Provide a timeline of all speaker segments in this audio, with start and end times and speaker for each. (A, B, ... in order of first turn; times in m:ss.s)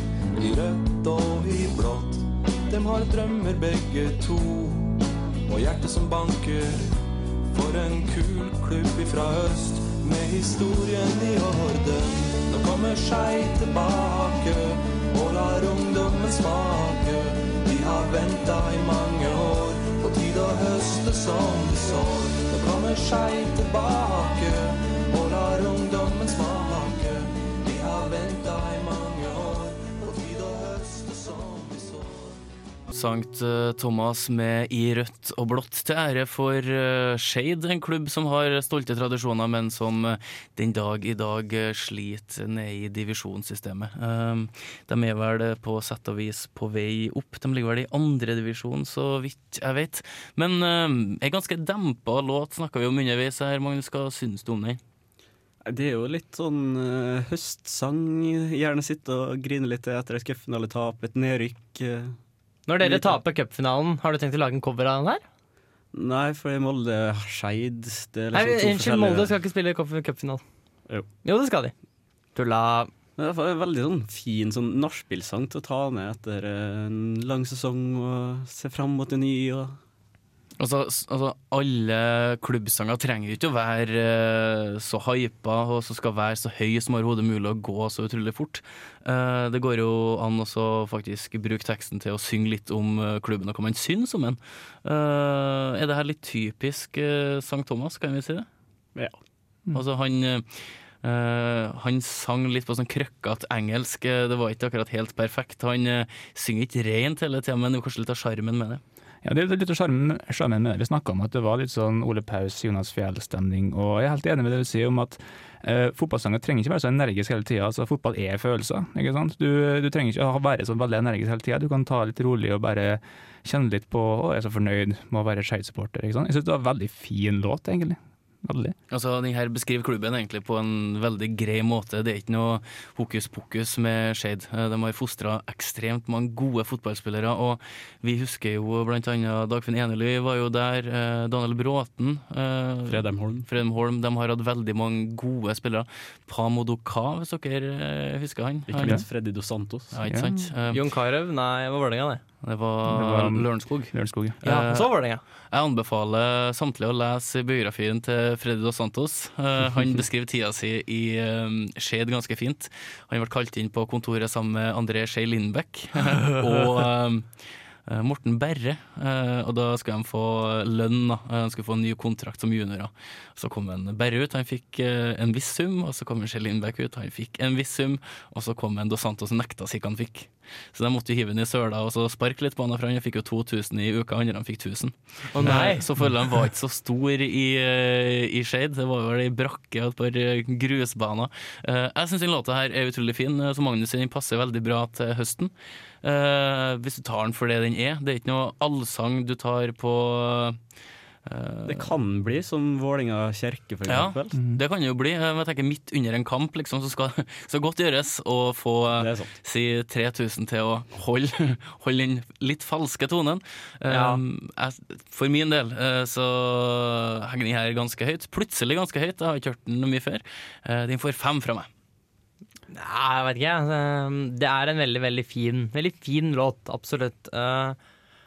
0:00.3-0:32.4 A
0:32.9-0:54.8 B
0:55.6-1:02.2 C
1:02.7-1:05.2 D
1:02.8-1:03.2 C
1:05.9-1:09.3 C
1:08.3-1:10.4 D
1:11.2-1:11.7 D
1:12.4-1:12.9 D
1:13.2-1:19.8 C
1:20.6-1:38.5 B
1:39.7-1:48.8 B
1:49.2-2:08.8 E
2:08.9-2:29.0 B
2:22.9-2:23.5 C
2:28.7-2:29.9 C
2:29.9-2:30.8 B
2:30.0-2:30.5 E
2:30.7-2:32.2 D
2:32.4-2:34.9 B
2:32.8-2:34.4 E
2:34.4-2:35.2 D
2:35.5-2:47.3 B
2:47.9-3:15.5 B
3:05.4-3:05.8 D
3:16.0-3:20.6 B
3:21.3-3:21.9 B
3:21.7-3:24.3 C
3:23.9-3:41.7 B
3:29.0-3:29.3 C
3:33.9-3:34.2 D
3:42.7-3:47.8 D